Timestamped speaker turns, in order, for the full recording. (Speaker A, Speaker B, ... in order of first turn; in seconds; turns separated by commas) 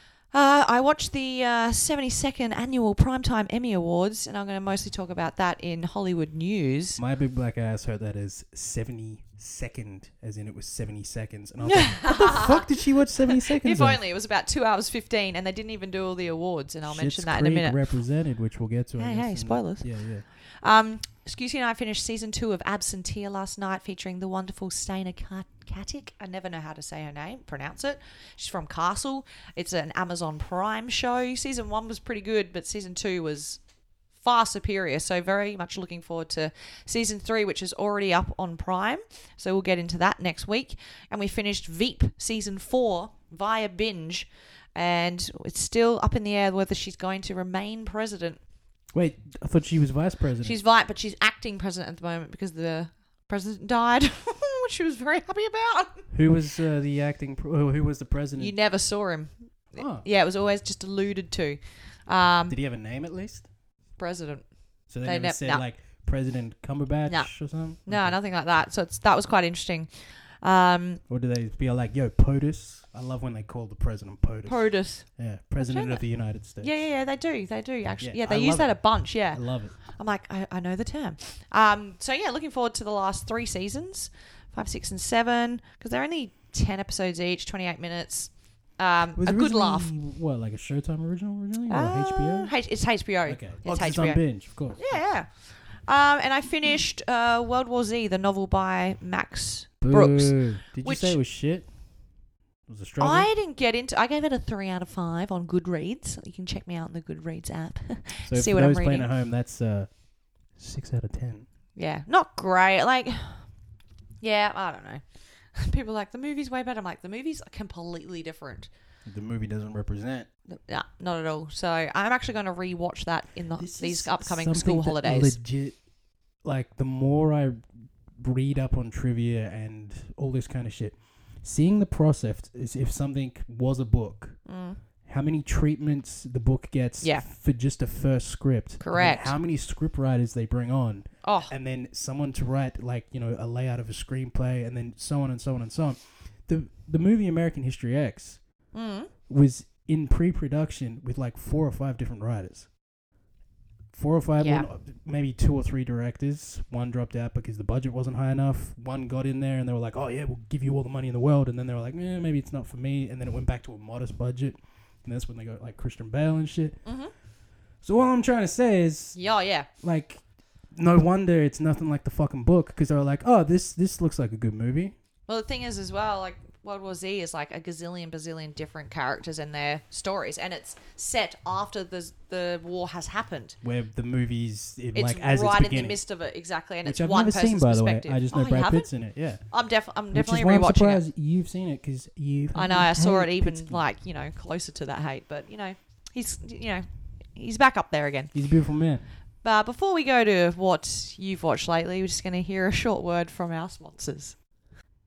Speaker A: 0.3-7.0, Speaker B: 7.0-14.0, Speaker A: 11.6-17.8, Speaker B: 16.9-20.2, Speaker A: 19.0-19.9, Speaker A: 20.6-33.6, Speaker A: 34.2-48.4, Speaker B: 49.0-50.6, Speaker A: 50.4-56.0, Speaker B: 56.1-58.5, Speaker A: 58.4-62.6, Speaker B: 59.8-60.1, Speaker B: 62.5-63.5, Speaker A: 64.0-64.5, Speaker B: 64.9-68.2, Speaker A: 65.0-65.6, Speaker A: 67.1-67.3, Speaker A: 67.8-69.9, Speaker A: 70.4-71.0, Speaker B: 71.1-76.7, Speaker A: 74.5-75.1, Speaker A: 75.6-76.0, Speaker A: 76.6-89.9, Speaker B: 78.0-79.8, Speaker B: 89.2-92.5, Speaker A: 91.7-94.2, Speaker B: 93.2-95.0, Speaker A: 94.8-101.2, Speaker B: 99.8-101.7, Speaker B: 102.7-103.3, Speaker A: 103.0-109.1, Speaker B: 108.2-109.9, Speaker B: 110.6-111.5, Speaker A: 111.8-113.5, Speaker A: 114.2-118.7, Speaker B: 119.0-120.3, Speaker A: 120.5-125.4, Speaker B: 123.6-125.8, Speaker B: 126.4-134.4, Speaker A: 134.5-134.8, Speaker B: 135.0-148.4, Speaker A: 138.8-139.3, Speaker A: 141.2-141.5, Speaker A: 148.7-149.1, Speaker B: 149.3-152.7, Speaker B: 153.9-166.8, Speaker A: 154.4-154.7, Speaker A: 166.8-167.1, Speaker B: 167.8-169.2, Speaker A: 169.1-169.7, Speaker B: 169.8-174.9, Speaker A: 175.3-183.6, Speaker B: 183.6-186.0, Speaker A: 184.9-188.9, Speaker B: 186.8-189.4, Speaker A: 189.5-191.0, Speaker B: 190.1-193.8, Speaker A: 192.6-198.3, Speaker B: 198.3-199.1, Speaker A: 199.4-204.3